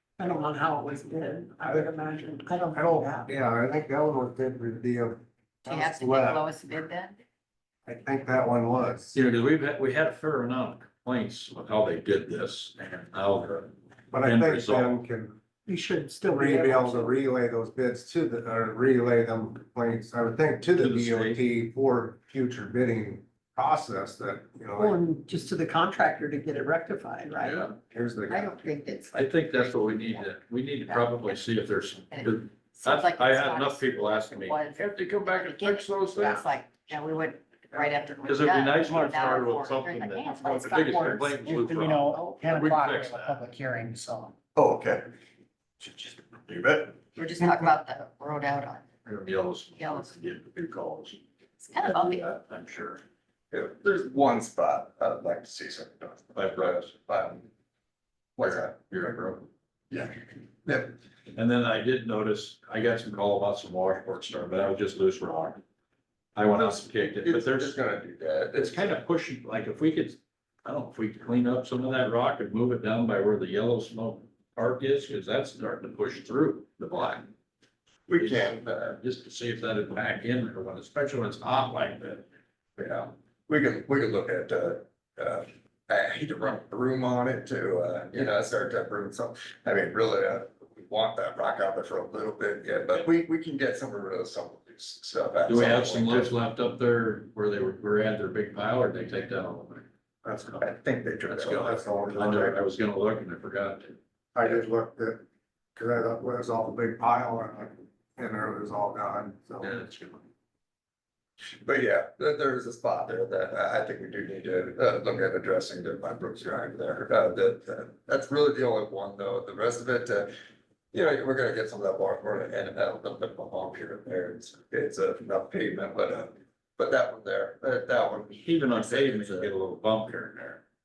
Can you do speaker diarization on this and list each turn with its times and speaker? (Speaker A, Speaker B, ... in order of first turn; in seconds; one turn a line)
Speaker A: 0.2-3.4
Speaker B: 2.7-6.5
Speaker C: 5.7-7.2
Speaker B: 7.9-9.2
Speaker D: 9.1-14.9
Speaker B: 14.1-15.4
Speaker A: 15.6-17.1
Speaker B: 16.3-25.0
Speaker D: 20.8-21.4
Speaker A: 24.8-27.7
Speaker D: 27.4-27.7
Speaker B: 27.9-28.6
Speaker C: 28.3-30.2
Speaker D: 29.1-36.5
Speaker C: 30.9-31.4
Speaker C: 32.1-41.1
Speaker D: 38.2-43.4
Speaker E: 40.8-44.3
Speaker F: 44.5-45.1
Speaker F: 45.8-47.1
Speaker C: 47.1-48.9
Speaker D: 49.1-51.2
Speaker C: 49.8-50.1
Speaker C: 51.6-52.3
Speaker D: 51.8-53.0
Speaker F: 53.5-57.5
Speaker D: 56.3-57.0
Speaker F: 58.4-59.4
Speaker D: 58.4-59.5
Speaker F: 60.6-60.9
Speaker D: 61.3-65.6
Speaker D: 66.3-67.8
Speaker F: 66.5-69.0
Speaker D: 68.6-77.3
Speaker F: 78.1-79.0
Speaker D: 78.2-82.3
Speaker F: 82.8-96.3
Speaker D: 95.5-99.9
Speaker B: 100.2-100.6
Speaker F: 100.6-102.4
Speaker D: 101.3-104.6
Speaker B: 101.4-102.6
Speaker B: 104.3-105.2
Speaker B: 105.8-109.8
Speaker D: 109.6-110.3
Speaker F: 111.6-120.3
Speaker F: 120.9-129.5
Speaker D: 128.4-130.6